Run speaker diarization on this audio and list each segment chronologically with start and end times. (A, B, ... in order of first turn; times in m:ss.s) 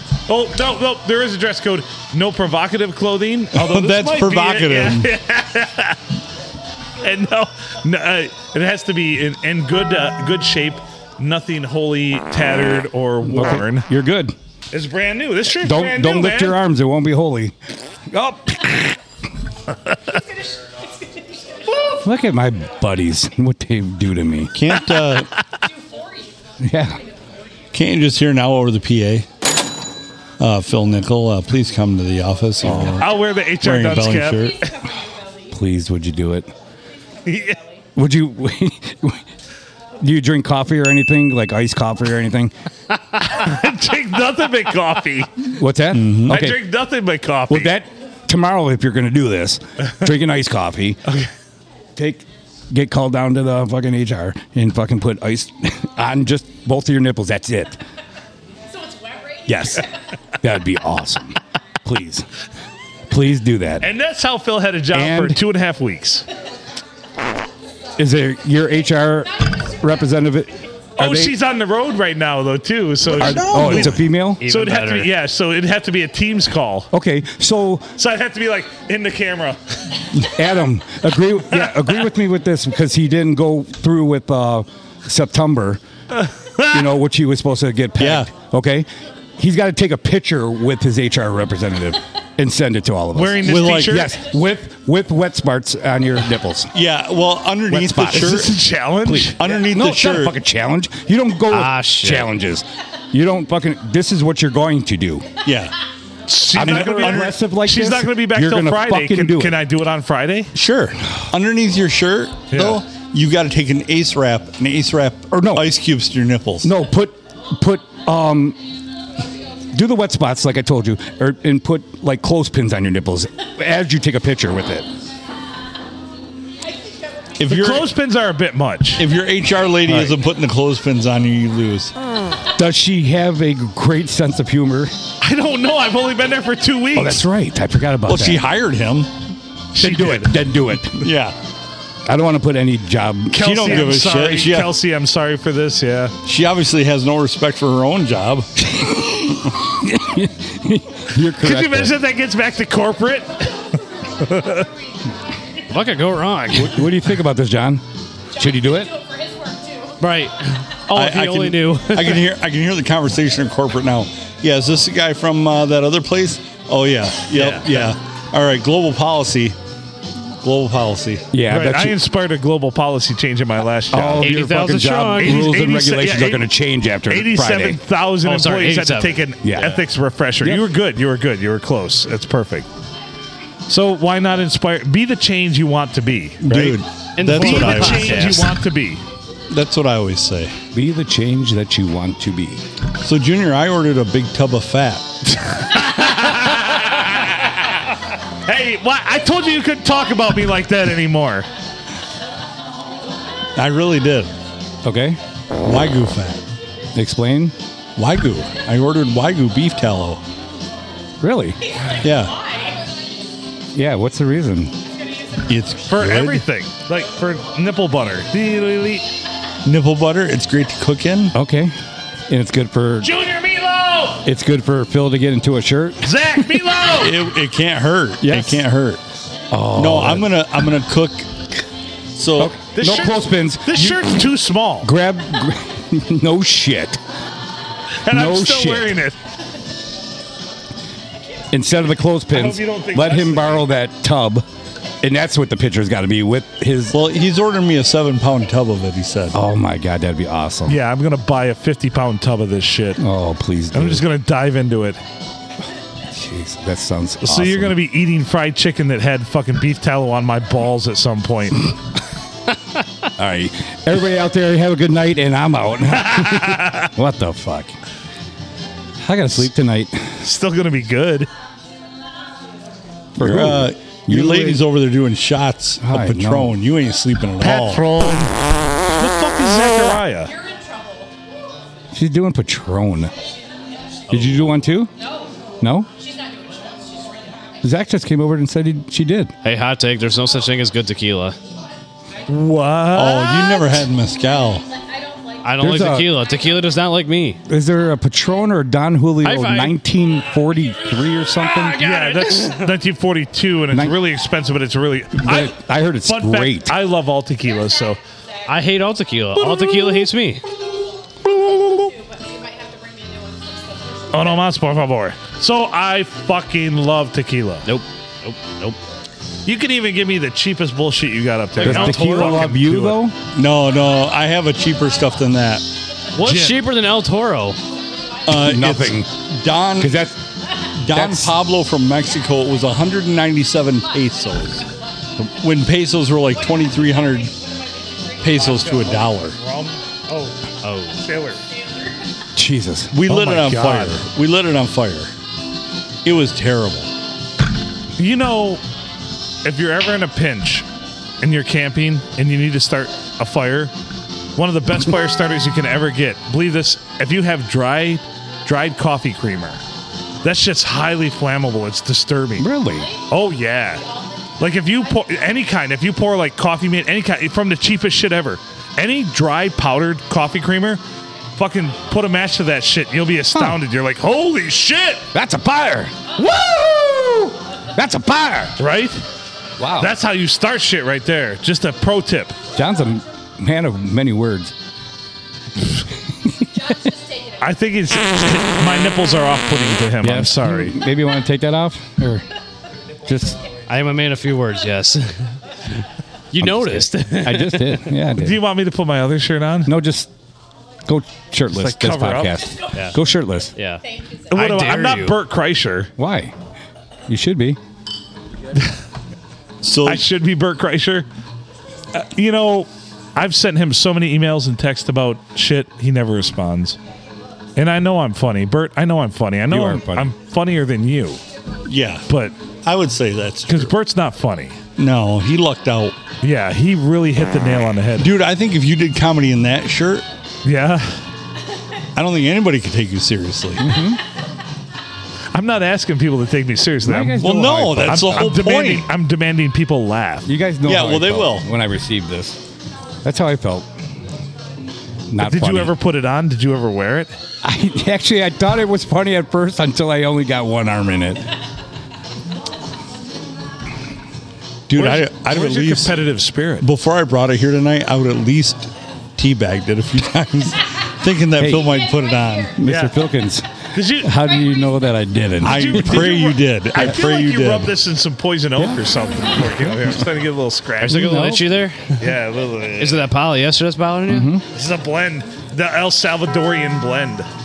0:00.3-0:06.0 A
0:03.5-0:05.1 B
0:07.0-0:13.9 A
0:13.2-0:14.3 C
0:14.7-0:16.6 A
0:15.6-0:17.5 C
0:18.1-0:19.0 C
0:20.1-0:21.6 D
0:22.0-0:24.5 C
0:24.5-0:25.3 B
0:25.8-0:26.3 D
0:26.6-0:27.0 C
0:27.7-0:29.2 B
0:30.4-0:34.6 B
0:32.6-0:34.7 A
0:35.5-0:36.5 C
0:37.2-0:37.6 A
0:38.0-0:39.2 C
0:40.0-0:42.5 C
0:43.2-0:45.5 A
0:45.5-0:46.6 C
0:45.9-0:46.4 B
0:46.3-0:47.7 A
0:47.5-0:51.0 C
0:52.0-0:57.8 C
0:58.8-0:59.4 D
0:59.4-0:59.8 C
1:00.4-1:02.2 C
1:03.1-1:03.9 C
1:03.8-1:06.2 A
1:04.9-1:05.4 C
1:08.0-1:11.4 C
1:11.0-1:16.9 A
1:13.1-1:14.4 C
1:14.4-1:15.1 E
1:16.9-1:17.9 C
1:18.0-1:19.6 A
1:20.2-1:25.8 C
1:21.5-1:22.0 A
1:26.1-1:26.9 A
1:26.7-1:36.7 C
1:28.0-1:28.3 B
1:33.1-1:34.2 A
1:33.4-1:34.1 B
1:36.7-1:38.5 B
1:37.7-1:38.5 C
1:38.1-1:39.4 A
1:39.0-1:45.2 C
1:39.4-1:40.4 B
1:41.5-1:42.3 E
1:45.4-1:45.7 B
1:46.3-1:50.5 A
1:46.5-1:47.3 B
1:46.5-1:49.6 C
1:50.5-1:56.7 B
1:52.5-1:52.8 A
1:55.3-1:55.7 C
1:56.6-1:58.6 C
1:59.7-2:04.9 C
2:07.4-2:07.9 B
2:07.5-2:09.0 A
2:09.0-2:11.9 B
2:09.8-2:10.2 C
2:12.6-2:14.9 C
2:15.2-2:17.2 A
2:16.9-2:18.4 C
2:18.0-2:19.1 B
2:19.7-2:20.4 A
2:19.8-2:21.1 C
2:21.0-2:21.3 B
2:22.0-2:23.9 C
2:23.3-2:26.1 A
2:23.4-2:24.8 B
2:26.2-2:28.5 B
2:28.6-2:31.9 C
2:31.4-2:33.5 A
2:34.2-2:34.7 A
2:35.7-2:36.9 E
2:36.5-2:37.8 C
2:38.3-2:38.9 C
2:38.4-2:39.9 D
2:40.0-2:42.2 E
2:40.9-2:49.6 B
2:47.3-2:47.7 E
2:50.4-2:51.3 B
2:51.3-2:52.0 C
2:51.5-2:54.4 A
2:53.9-2:57.8 C
2:54.2-2:55.5 E
2:55.2-2:56.5 A
2:57.1-3:02.7 A
2:58.2-2:59.2 E
2:59.4-2:59.8 C
3:03.7-3:06.8 A
3:06.4-3:08.5 B
3:07.2-3:08.5 E
3:07.3-3:09.0 A
3:09.5-3:10.5 B
3:10.7-3:12.6 C
3:13.0-3:15.1 B
3:15.5-3:17.6 A
3:18.4-3:21.4 A
3:23.6-3:24.3 B
3:24.8-3:25.2 C
3:25.6-3:26.4 B
3:26.9-3:27.5 C
3:28.0-3:30.2 B
3:31.2-3:31.6 C
3:31.8-3:32.8 D
3:32.0-3:32.4 B
3:33.7-3:34.7 C
3:35.0-3:35.4 D
3:35.5-3:36.4 B
3:35.8-3:39.1 A
3:39.6-3:41.3 B
3:41.3-3:41.7 C
3:42.3-3:43.1 C
3:43.0-3:44.2 A
3:44.2-3:46.1 C
3:46.0-3:47.2 A
3:47.0-3:49.0 B
3:48.2-3:48.6 C
3:49.5-3:50.4 C
3:49.7-3:51.3 B
3:52.1-3:52.5 B
3:52.4-3:54.2 C
3:52.7-3:54.9 A
3:54.8-3:57.0 C
3:58.0-3:59.2 A
3:58.1-3:58.9 C
4:01.5-4:04.4 C
4:02.3-4:03.6 A
4:05.0-4:07.0 C
4:06.9-4:09.4 B
4:09.3-4:10.8 C
4:10.7-4:13.0 A
4:13.0-4:14.0 C
4:13.7-4:15.0 A
4:16.1-4:17.8 C
4:17.2-4:21.7 A
4:23.2-4:27.7 C
4:26.0-4:26.9 A
4:29.0-4:30.1 C
4:30.2-4:31.3 A
4:33.2-4:34.6 C
4:33.2-4:37.8 B
4:35.8-4:36.6 C
4:37.4-4:38.3 A
4:39.0-4:40.3 A
4:40.3-4:41.1 D
4:41.9-4:43.1 C
4:44.1-4:44.4 E
4:44.1-4:44.9 C
4:45.0-4:45.3 D
4:45.6-4:45.9 C
4:46.0-4:47.7 D
4:47.6-4:49.3 C
4:49.4-4:51.4 E
4:52.3-4:53.3 A
4:52.9-4:54.6 B
4:54.7-4:55.7 D
4:55.4-4:57.4 E
4:55.6-4:56.1 C
4:57.5-5:01.8 C
4:59.2-4:59.8 E
5:01.4-5:02.7 E
5:01.8-5:08.0 A
5:03.7-5:04.0 C
5:05.2-5:06.8 C
5:08.5-5:10.4 E
5:11.2-5:14.5 D
5:14.1-5:17.7 A
5:17.6-5:18.8 E
5:19.4-5:23.0 A
5:21.6-5:23.2 C
5:23.3-5:25.7 B
5:26.1-5:27.6 E
5:26.2-5:26.6 A
5:28.2-5:30.0 B
5:28.3-5:29.1 C
5:29.8-5:30.2 C
5:30.8-5:34.6 B
5:30.9-5:31.4 C
5:35.4-5:37.3 B
5:36.7-5:38.8 D
5:38.2-5:39.4 B
5:38.4-5:40.4 A
5:40.6-5:41.0 E
5:41.0-5:41.4 A
5:41.5-5:41.9 D
5:42.4-5:42.9 C
5:42.9-5:45.1 B
5:43.0-5:44.0 A
5:46.0-5:46.9 B
5:48.0-5:48.6 A
5:49.4-5:50.6 A
5:51.2-5:53.7 A
5:54.4-5:59.6 A
6:00.2-6:02.5 A
6:02.4-6:02.9 C
6:03.1-6:03.8 A
6:03.8-6:04.4 D
6:04.4-6:10.8 A
6:11.3-6:15.1 A
6:13.3-6:13.6 C
6:15.1-6:18.6 C
6:16.6-6:17.2 A
6:18.6-6:19.0 A
6:19.6-6:20.0 C
6:19.8-6:22.4 A
6:22.5-6:24.5 C
6:26.7-6:27.4 D
6:27.4-6:30.8 A
6:30.0-6:32.2 C
6:33.0-6:33.4 C
6:33.7-6:35.3 E
6:36.3-6:37.9 E
6:36.4-6:38.4 C
6:38.2-6:39.7 A
6:39.6-6:40.1 C
6:40.8-6:43.5 C
6:41.5-6:42.4 A
6:43.6-6:45.2 E
6:43.9-6:44.2 D
6:44.3-6:45.9 A
6:46.0-6:46.3 C
6:47.1-6:47.6 C
6:49.6-6:50.0 B
6:49.8-6:51.0 A
6:51.9-6:56.8 A
6:57.6-7:01.2 A
6:59.5-7:00.1 C
7:01.6-7:02.1 B
7:02.1-7:02.3 A
7:02.6-7:03.7 B
7:03.5-7:04.6 A
7:04.8-7:06.0 B
7:06.2-7:08.1 A
7:08.0-7:10.0 B
7:10.4-7:11.0 A
7:12.0-7:13.7 B
7:13.6-7:14.0 C
7:15.3-7:17.3 A
7:16.8-7:18.4 C
7:17.2-7:18.9 B
7:17.8-7:20.3 A
7:20.2-7:22.4 C
7:20.6-7:21.4 B
7:23.0-7:23.7 C
7:25.1-7:25.7 C
7:25.2-7:27.1 A
7:27.4-7:31.3 C
7:34.7-7:35.9 B
7:34.7-7:36.7 A
7:36.6-7:42.6 B
7:41.4-7:41.8 C
7:42.6-7:46.1 C
7:42.6-7:43.0 A
7:43.7-7:44.1 A
7:45.4-7:47.7 B
7:45.4-7:51.1 A
7:49.4-7:49.8 C
7:50.8-7:52.1 E
7:50.9-7:51.6 C
7:52.0-7:53.1 A
7:52.8-7:54.3 E
7:54.1-7:54.4 C
7:54.5-7:57.3 A